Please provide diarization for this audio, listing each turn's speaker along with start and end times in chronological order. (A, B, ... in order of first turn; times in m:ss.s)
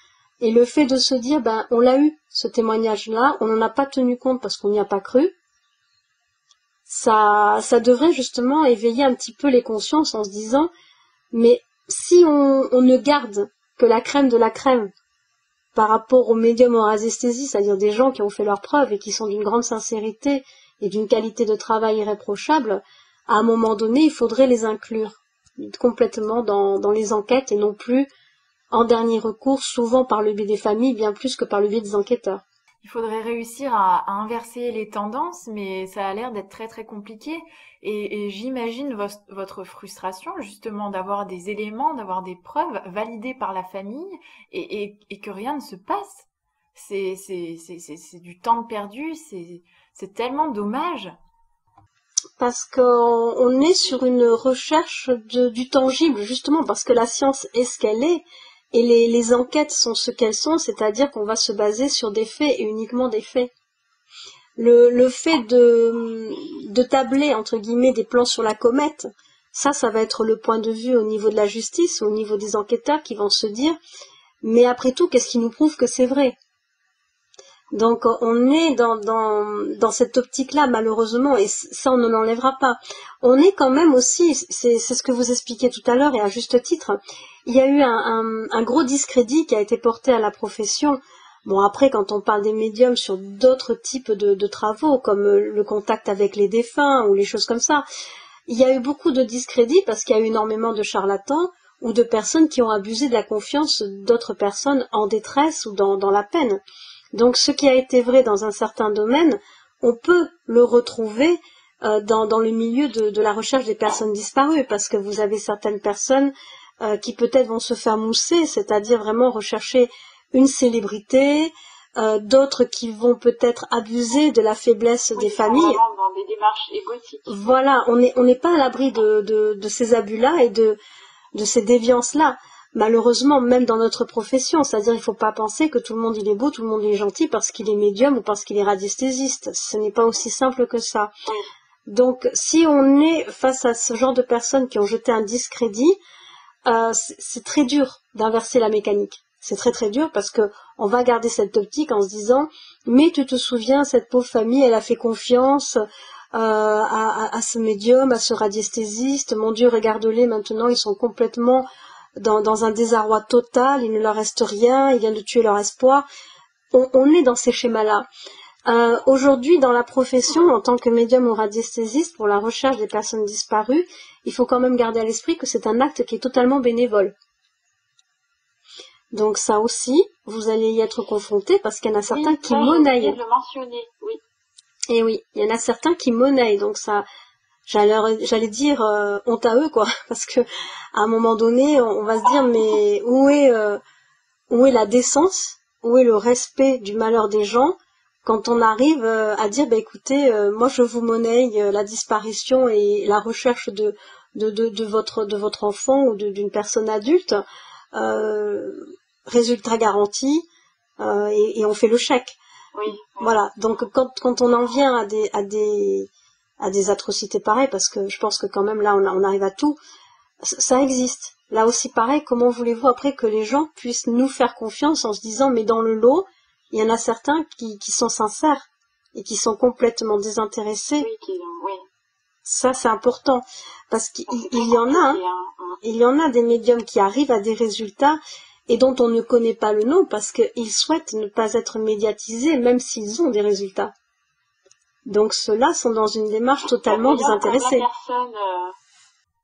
0:00.4-0:05.3 A
0:06.9-0:10.7 A
0:11.3-0:14.9 A
0:15.7-0:28.1 A
0:28.7-0:32.4 A
0:32.8-0:51.1 B
0:52.4-1:03.5 A
1:04.6-1:13.8 A
1:14.4-1:16.4 A
1:17.7-1:37.8 A
1:38.5-1:46.6 A
1:47.1-2:05.8 A
2:05.1-2:07.4 C
2:07.3-2:10.8 A
2:11.3-2:21.1 A
2:21.9-2:26.0 A
2:26.6-2:35.8 A
2:36.3-2:41.6 A
2:42.2-2:46.0 A
2:46.7-2:48.0 A
2:48.7-2:57.1 A
2:59.1-3:03.2 A
3:02.1-3:04.2 C
3:04.9-3:07.0 A
3:07.7-3:13.8 A
3:14.5-3:27.4 A
3:27.9-3:30.5 A
3:31.0-3:32.4 A
3:32.7-3:33.3 C
3:32.9-3:36.1 A
3:36.6-3:39.8 A
3:40.4-3:51.1 A
3:51.0-3:51.8 C
3:52.4-3:55.2 A
3:54.3-3:55.8 C
3:55.8-4:03.9 A
4:05.1-4:07.8 A
4:06.6-4:08.7 C